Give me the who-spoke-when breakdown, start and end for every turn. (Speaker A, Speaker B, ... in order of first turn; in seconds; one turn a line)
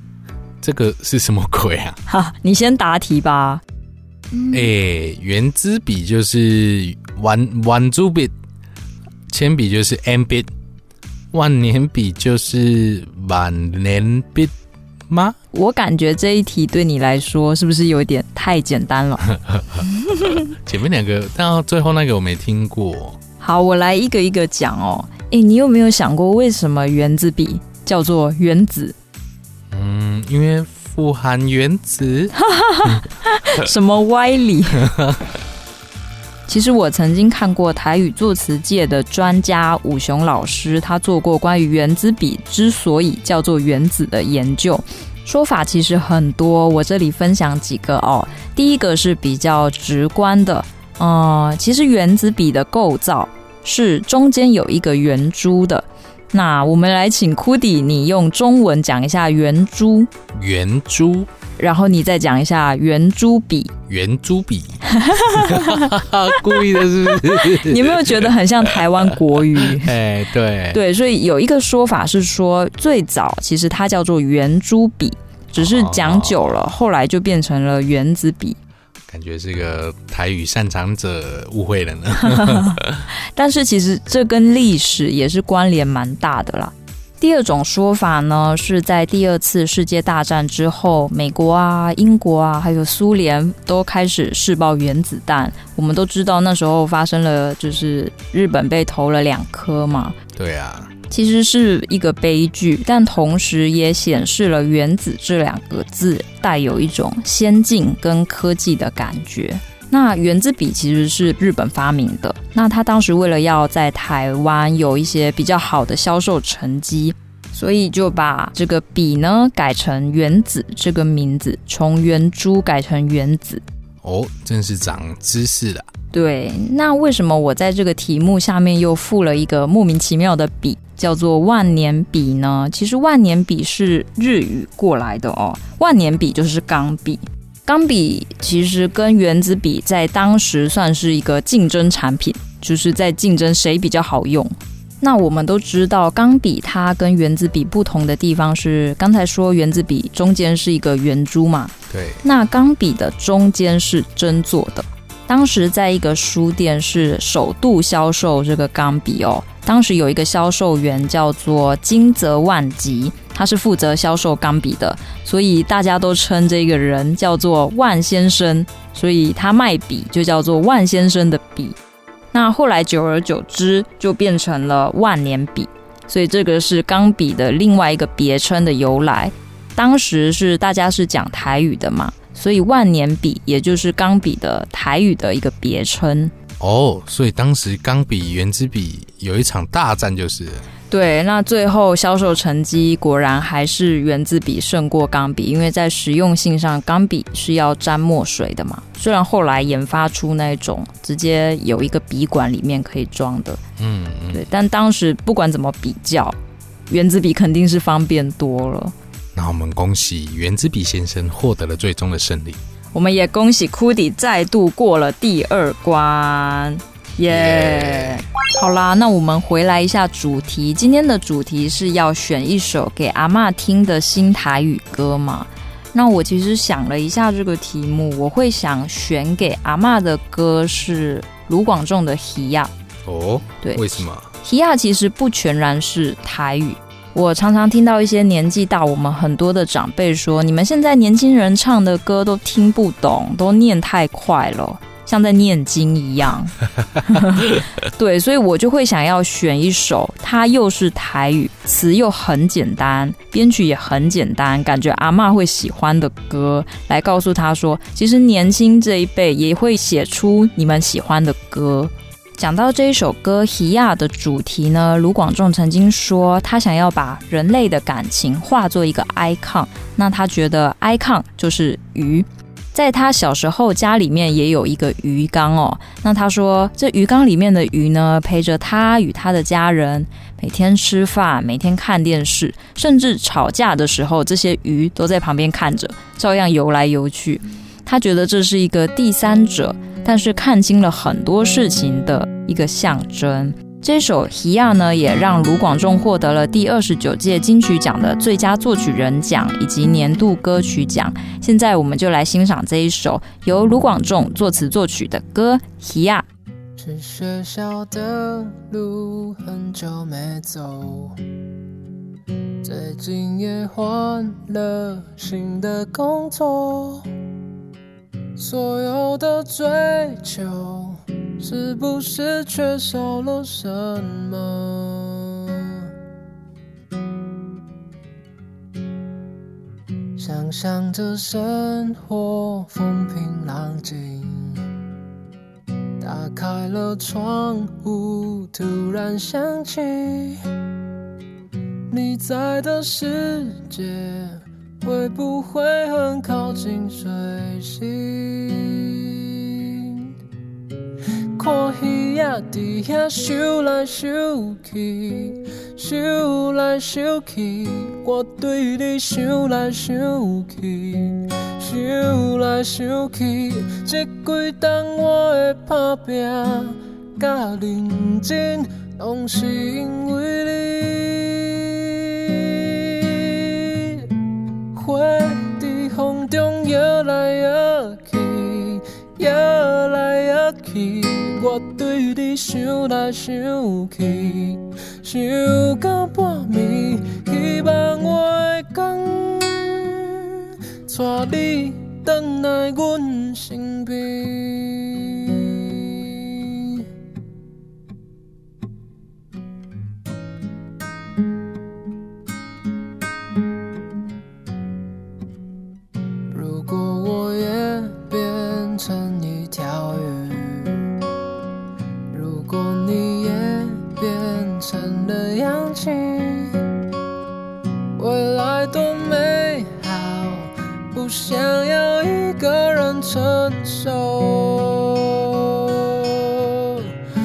Speaker A: 0.6-2.0
Speaker B: 2.1-3.6
Speaker A: 4.5-8.3
Speaker A: 9.3-10.5
Speaker A: 11.3-14.5
Speaker A: 15.1-15.4
Speaker B: 15.5-19.3
Speaker A: 19.4-19.8
Speaker B: 20.1-20.4
Speaker A: 20.5-23.2
Speaker B: 23.4-28.9
Speaker A: 29.7-32.3
Speaker B: 32.4-34.9
Speaker A: 34.8-35.2
Speaker B: 36.5-60.1
Speaker A: 60.3-61.3
Speaker B: 61.6-63.7
Speaker A: 63.9-68.8
Speaker B: 64.9-65.9
Speaker B: 67.4-69.9
Speaker A: 69.5-70.8
Speaker B: 70.7-78.6
Speaker A: 75.6-76.4
Speaker A: 79.1-83.0
Speaker B: 82.3-82.8
Speaker B: 83.3-100.1
Speaker A: 100.3-100.9
Speaker B: 101.1-123.6
Speaker A: 124.0-125.9
Speaker B: 126.1-171.8
Speaker A: 151.9-152.2
Speaker B: 172.3-186.3
Speaker A: 186.6-190.6
Speaker B: 190.9-203.6
Speaker A: 203.8-204.4
Speaker B: 204.3-206.4
Speaker B: 206.9-208.9
Speaker A: 209.3-212.6
Speaker B: 212.9-232.7
Speaker A: 217.2-218.2
Speaker A: 233.1-234.3
Speaker B: 234.4-306.2
Speaker C: 306.8-311.1
Speaker C: 312.6-317.0
Speaker C: 318.4-325.9
Speaker C: 330.2-334.7
Speaker C: 336.0-340.4
Speaker C: 341.9-350.1
Speaker C: 351.4-374.1
Speaker C: 374.7-396.8
Speaker C: 406.3-410.9
Speaker C: 412.1-416.6
Speaker C: 418.0-426.9